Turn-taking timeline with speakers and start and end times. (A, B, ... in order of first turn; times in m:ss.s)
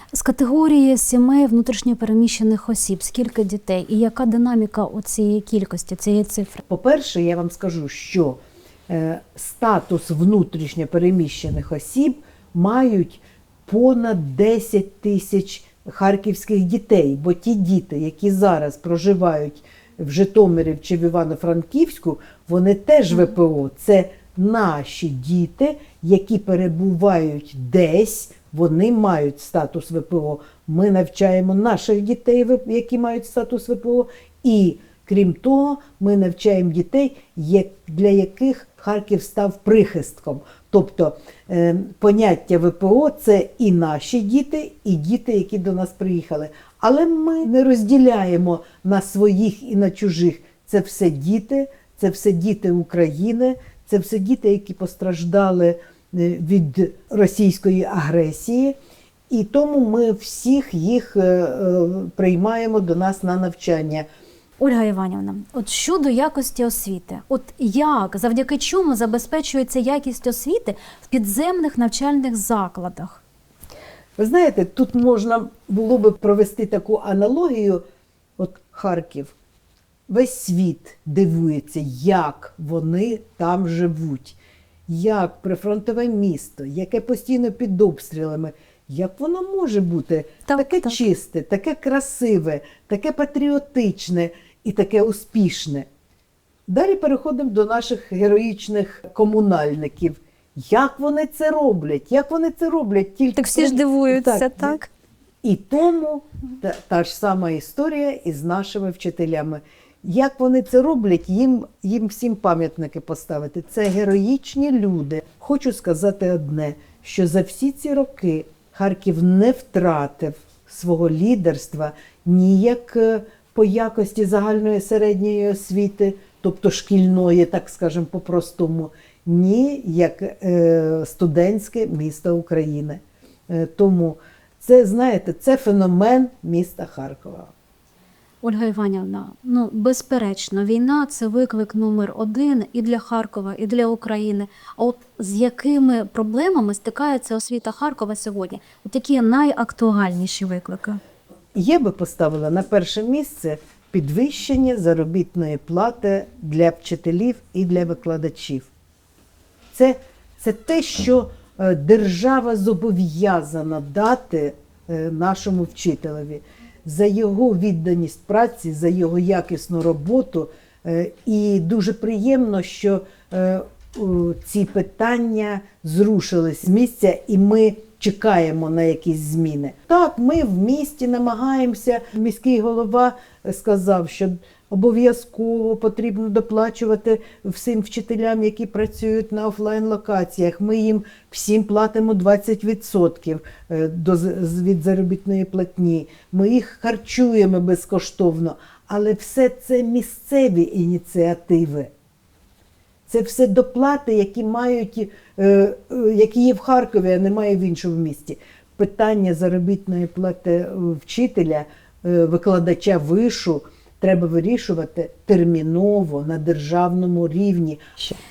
0:00.1-0:06.6 A
0:06.7-0:58.7 B
0:59.3-1:04.0 B
1:04.6-1:13.2 A
1:14.2-1:17.8 B
1:18.4-1:19.3 B
1:20.1-1:35.9 B
1:30.4-1:31.0 A
1:36.7-1:44.8 B
1:43.4-1:44.9 A
1:45.4-2:17.5 B
2:18.4-2:31.0 A
2:31.6-2:38.7 B
2:39.7-3:21.9 B
3:23.1-3:38.1 B